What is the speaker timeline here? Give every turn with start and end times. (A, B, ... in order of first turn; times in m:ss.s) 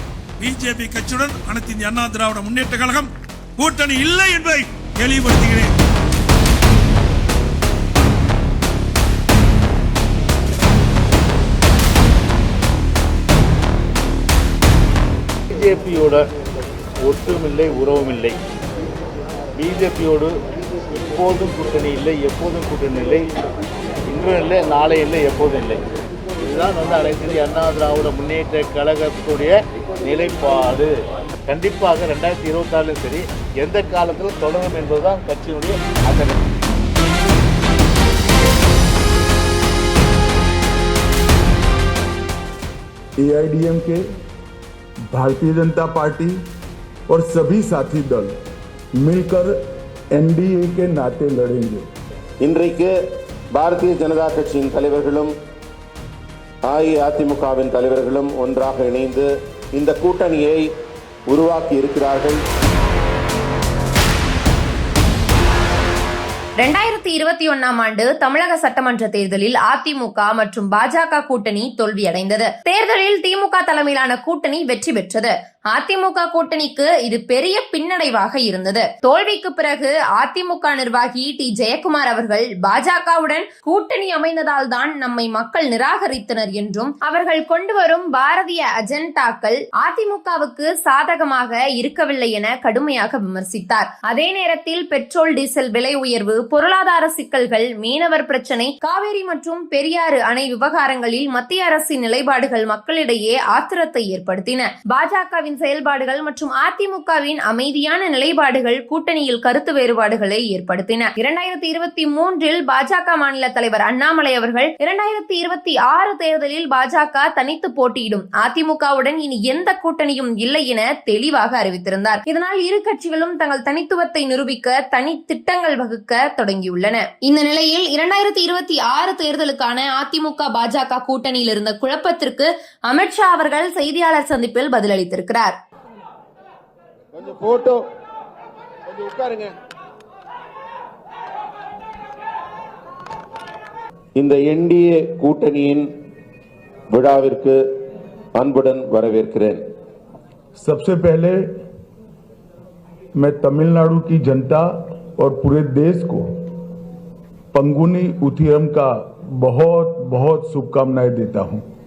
0:00.4-0:05.7 A
0:15.5-0:16.2 B
0:17.0-0:18.4 B
0:19.6-0:20.3 B
0:21.0-0:23.3 B
0:24.1-0:25.8 B
0:26.4-0:30.9 B
0:31.5-0:36.3 B
0:43.2-0:44.0 C
0:45.1-0:46.4 C
0:47.1-0:48.3 C
0:49.0-0:49.5 C
0:50.1-0:51.9 C
0:52.4-0:52.9 D
0:53.5-0:55.3 D
0:56.6-1:00.7 D
1:01.3-1:02.4 D
1:06.6-2:15.6 E
2:17.1-2:17.8 D
2:18.8-2:19.5 D
2:24.2-2:25.9 D
2:26.9-2:27.6 D
2:28.4-2:29.6 D
2:30.5-2:31.5 C
2:33.2-2:36.4 C
2:37.5-2:41.6 C